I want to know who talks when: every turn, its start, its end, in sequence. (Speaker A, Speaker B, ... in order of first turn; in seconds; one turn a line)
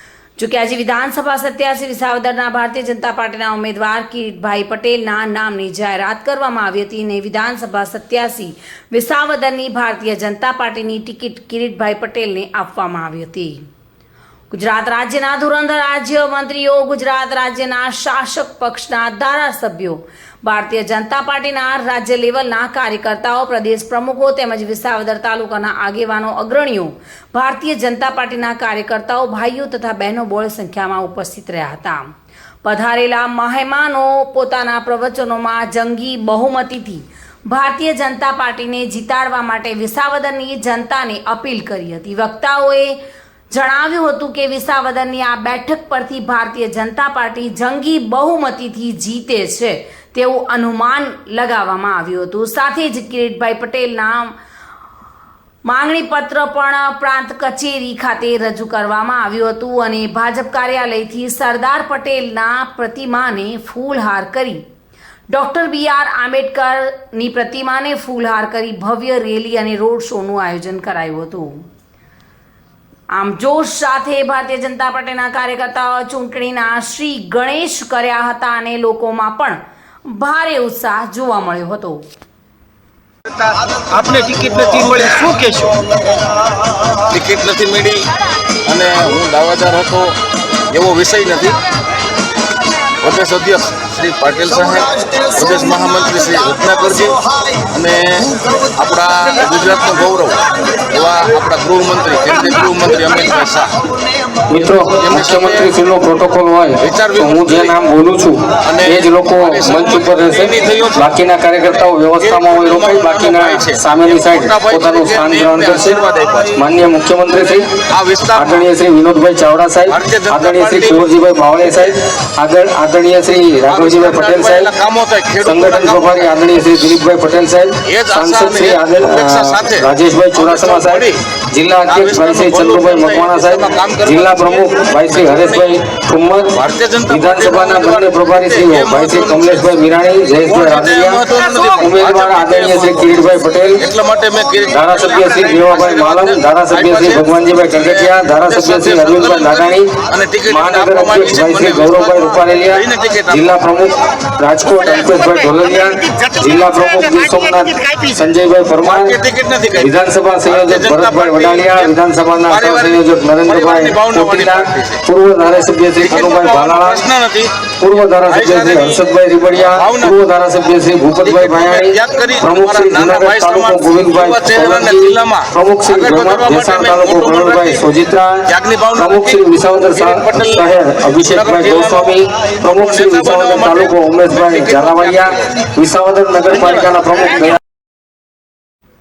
Speaker A: 0.4-13.6
Speaker A: 14.5-32.1
Speaker A: 32.6-43.0
Speaker A: 43.5-54.3
Speaker A: 55.6-64.6
Speaker A: 65.3-71.6
Speaker A: 73.1-82.0
Speaker B: 83.5-85.8
Speaker C: 87.1-88.1
Speaker C: 88.7-90.2
Speaker C: 90.7-91.6
Speaker C: 93.0-103.7
Speaker D: 104.5-116.0
Speaker C: 105.0-105.7
Speaker C: 106.8-107.8
Speaker C: 108.6-111.1
Speaker C: 112.2-116.7
Speaker D: 116.5-117.7
Speaker C: 117.5-118.7
Speaker D: 118.3-124.7
Speaker C: 119.9-121.1
Speaker C: 121.7-122.0
Speaker C: 123.7-126.9
Speaker D: 125.4-143.8
Speaker C: 127.8-131.2
Speaker C: 131.9-135.8
Speaker C: 136.5-139.8
Speaker C: 140.5-143.2
Speaker C: 143.8-153.6
Speaker D: 144.7-149.9
Speaker D: 150.5-159.2
Speaker C: 158.8-161.9
Speaker D: 159.8-167.1
Speaker C: 162.5-165.0
Speaker C: 166.1-167.5
Speaker D: 167.8-187.6
Speaker C: 168.2-169.0
Speaker C: 169.6-170.2
Speaker C: 171.2-177.8
Speaker C: 178.5-185.5
Speaker C: 186.5-187.5